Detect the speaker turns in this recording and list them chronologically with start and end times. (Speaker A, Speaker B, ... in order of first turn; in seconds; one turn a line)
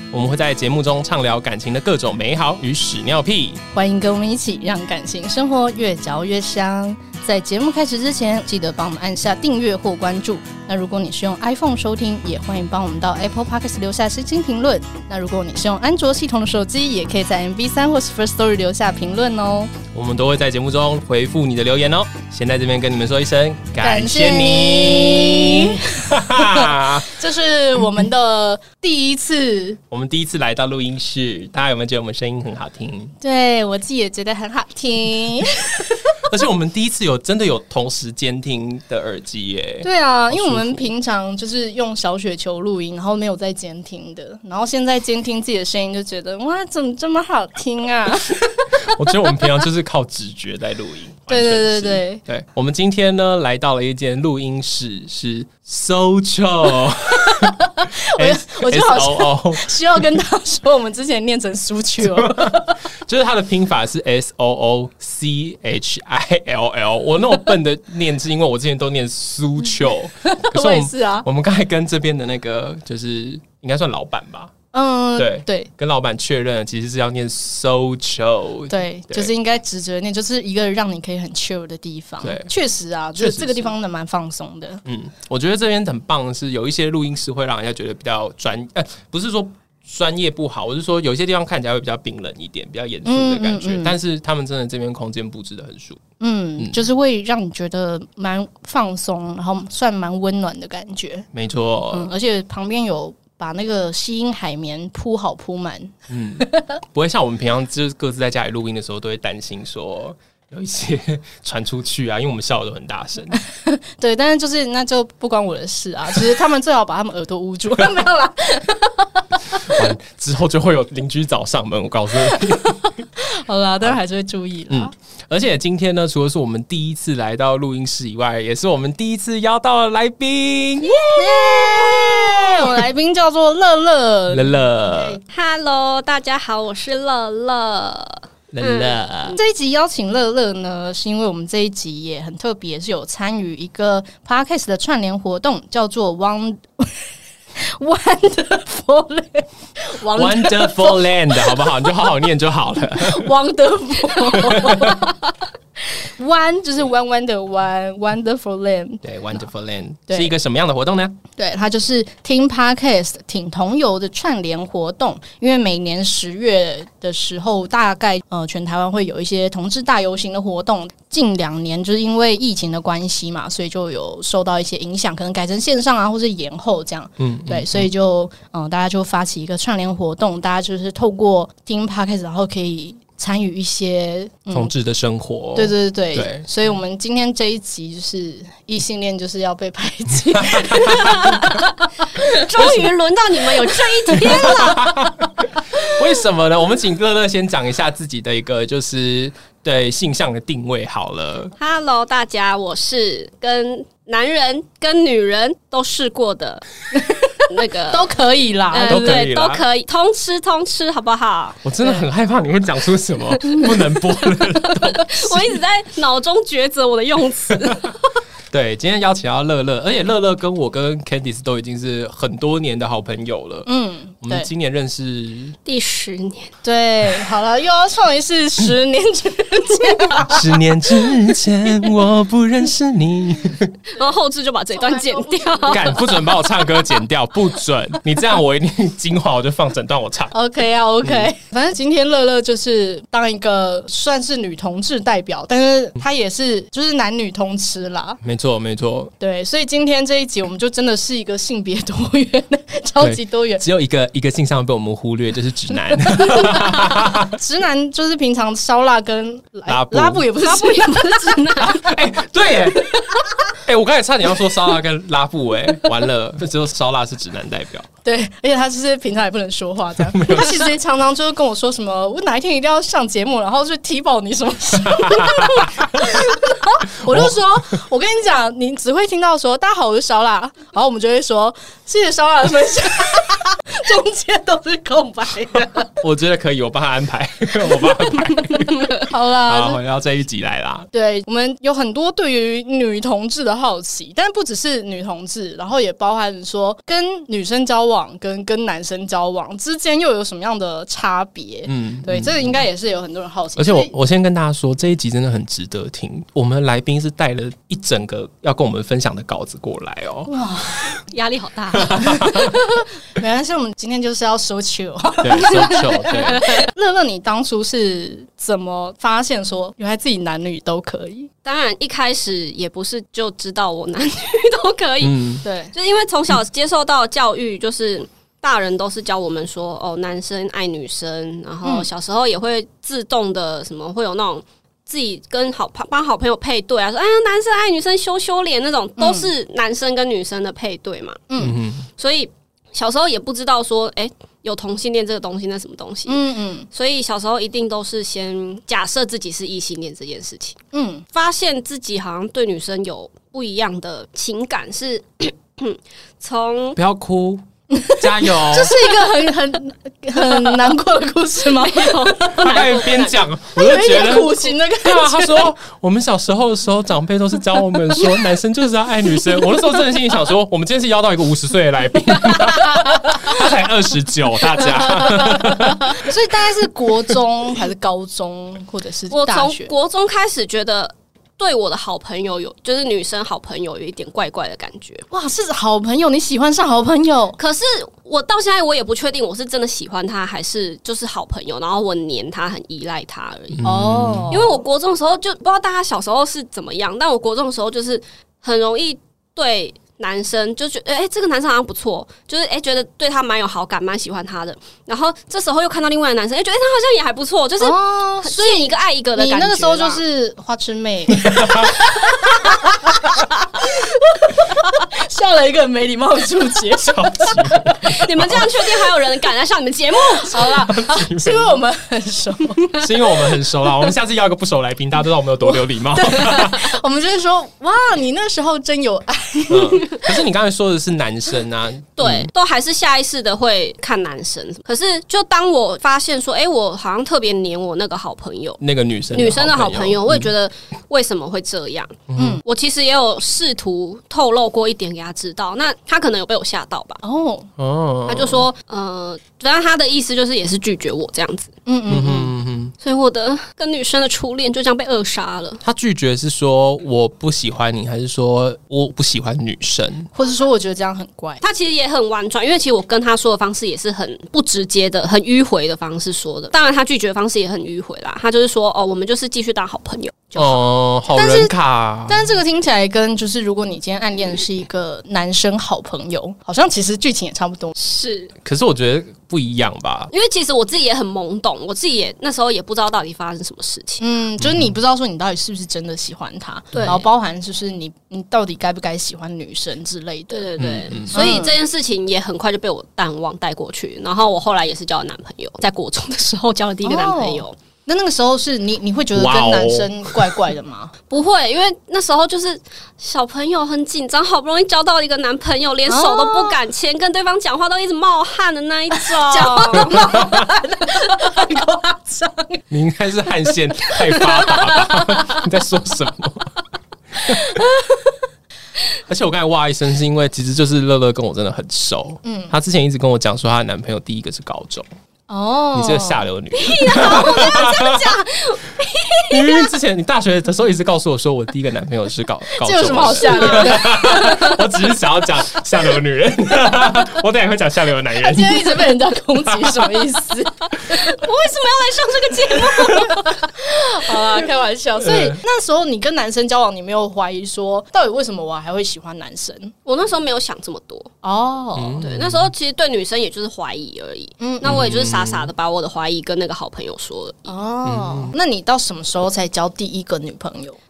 Speaker A: 0.1-3.6
Speaker B: 3.7-19.8
Speaker A: 19.9-27.1
Speaker B: 23.8-29.8
Speaker A: 29.9-33.1
Speaker B: 33.2-36.2
Speaker A: 36.3-40.9
Speaker B: 39.8-49.6
Speaker A: 48.9-59.8
Speaker B: 51.3-52.2
Speaker B: 57.1-62.8
Speaker A: 62.0-74.5
Speaker B: 70.2-71.3
Speaker B: 74.7-75.7
Speaker A: 75.2-79.3
Speaker B: 78.7-84.8
Speaker A: 82.2-82.5
Speaker A: 83.2-83.7
Speaker A: 84.8-96.0
Speaker B: 93.0-94.0
Speaker B: 96.2-101.3
Speaker A: 101.3-102.1
Speaker B: 101.9-106.7
Speaker A: 106.1-113.4
Speaker B: 113.5-119.8
Speaker A: 119.7-123.0
Speaker B: 122.3-124.9
Speaker A: 124.7-132.5
Speaker C: 130.9-132.0
Speaker B: 131.2-135.2
Speaker A: 134.3-135.2
Speaker C: 135.3-139.4
Speaker A: 138.5-139.4
Speaker B: 139.3-151.9
Speaker A: 150.1-153.3
Speaker B: 152.9-155.3
Speaker A: 154.2-155.1
Speaker B: 156.0-159.0
Speaker A: 159.0-161.2
Speaker B: 160.1-160.3
Speaker B: 161.4-184.7
Speaker A: 177.2-177.9
Speaker A: 184.5-186.5
Speaker B: 185.6-191.5
Speaker A: 190.4-191.2
Speaker C: 190.7-195.0
Speaker A: 192.6-192.9
Speaker A: 194.1-201.5
Speaker C: 201.6-206.7
Speaker B: 206.9-209.3
Speaker C: 207.5-208.1
Speaker C: 208.7-211.6
Speaker A: 208.8-209.6
Speaker A: 211.6-215.6
Speaker C: 214.8-217.9
Speaker A: 218.5-223.7
Speaker B: 223.7-224.5
Speaker A: 224.2-225.6
Speaker C: 225.7-226.5
Speaker B: 226.6-230.6
Speaker A: 230.2-233.7
Speaker C: 233.9-236.2
Speaker B: 234.8-236.4
Speaker A: 235.7-240.3
Speaker B: 240.3-248.2
Speaker A: 241.0-241.3
Speaker A: 248.2-249.1
Speaker B: 249.2-253.6
Speaker A: 253.0-257.4
Speaker B: 256.1-261.7
Speaker A: 259.7-260.3
Speaker C: 260.4-261.8
Speaker A: 261.6-267.9
Speaker B: 268.1-285.9
Speaker A: 270.1-270.6
Speaker A: 274.9-276.1
Speaker A: 277.0-277.4
Speaker A: 286.0-290.9
Speaker B: 287.9-289.8
Speaker B: 290.9-303.9
Speaker A: 301.7-302.6
Speaker A: 303.6-310.3
Speaker B: 310.3-311.0
Speaker C: 311.0-312.5
Speaker A: 311.8-312.5
Speaker B: 311.9-321.3
Speaker A: 315.2-316.5
Speaker C: 321.4-341.2
Speaker A: 325.0-325.4
Speaker B: 325.4-325.7
Speaker B: 339.0-339.3
Speaker B: 341.3-341.6
Speaker A: 341.4-341.9
Speaker C: 342.0-350.6
Speaker B: 346.1-346.7
Speaker B: 350.7-351.1
Speaker C: 351.1-356.8
Speaker A: 356.8-357.4
Speaker B: 357.7-362.8
Speaker A: 358.0-358.8
Speaker C: 361.5-363.2
Speaker A: 362.4-376.1
Speaker B: 363.6-365.5
Speaker B: 372.3-373.2
Speaker B: 374.9-379.7
Speaker C: 379.1-385.1
Speaker B: 385.1-387.4
Speaker C: 387.4-393.7
Speaker A: 393.5-394.4
Speaker B: 393.6-394.6
Speaker C: 394.3-410.0
Speaker B: 407.6-417.9
Speaker A: 411.2-411.8
Speaker A: 416.9-418.5
Speaker C: 417.8-420.5
Speaker B: 420.2-423.4
Speaker A: 420.7-421.6
Speaker A: 422.8-426.7
Speaker B: 425.4-430.1
Speaker A: 429.5-432.3
Speaker C: 432.0-438.6
Speaker A: 438.6-440.3
Speaker C: 439.1-447.0
Speaker A: 442.1-442.4
Speaker B: 442.2-442.4
Speaker B: 447.0-447.5
Speaker A: 447.6-448.5
Speaker C: 448.1-451.5
Speaker B: 451.7-452.3
Speaker A: 451.9-452.7
Speaker C: 452.8-455.6
Speaker A: 455.6-460.1
Speaker B: 460.1-461.4
Speaker C: 461.4-470.6
Speaker A: 470.4-472.3
Speaker B: 471.1-471.5
Speaker B: 472.1-477.7
Speaker C: 477.8-478.3
Speaker A: 478.4-480.1
Speaker C: 480.1-484.0
Speaker B: 484.0-490.5
Speaker C: 486.7-487.1
Speaker C: 490.3-497.6
Speaker A: 490.6-491.4
Speaker B: 491.1-491.6
Speaker B: 496.8-500.9
Speaker A: 499.1-500.4
Speaker C: 501.1-510.3
Speaker B: 505.9-506.6
Speaker B: 509.1-512.6
Speaker A: 509.9-510.5
Speaker A: 512.7-516.5
Speaker B: 513.9-515.3
Speaker B: 517.3-518.2
Speaker A: 519.1-524.9
Speaker B: 522.2-522.5
Speaker B: 525.3-526.3
Speaker A: 525.7-528.2
Speaker C: 526.5-529.7
Speaker B: 527.0-527.5
Speaker A: 529.3-540.1
Speaker B: 532.6-534.9
Speaker B: 538.2-541.2
Speaker C: 540.8-543.3
Speaker B: 542.6-549.7
Speaker A: 545.0-545.4
Speaker C: 549.9-551.1
Speaker B: 551.2-552.0
Speaker A: 551.8-552.5
Speaker C: 552.0-557.5
Speaker B: 554.4-554.8
Speaker A: 554.6-555.5
Speaker B: 557.5-560.8
Speaker A: 557.9-558.3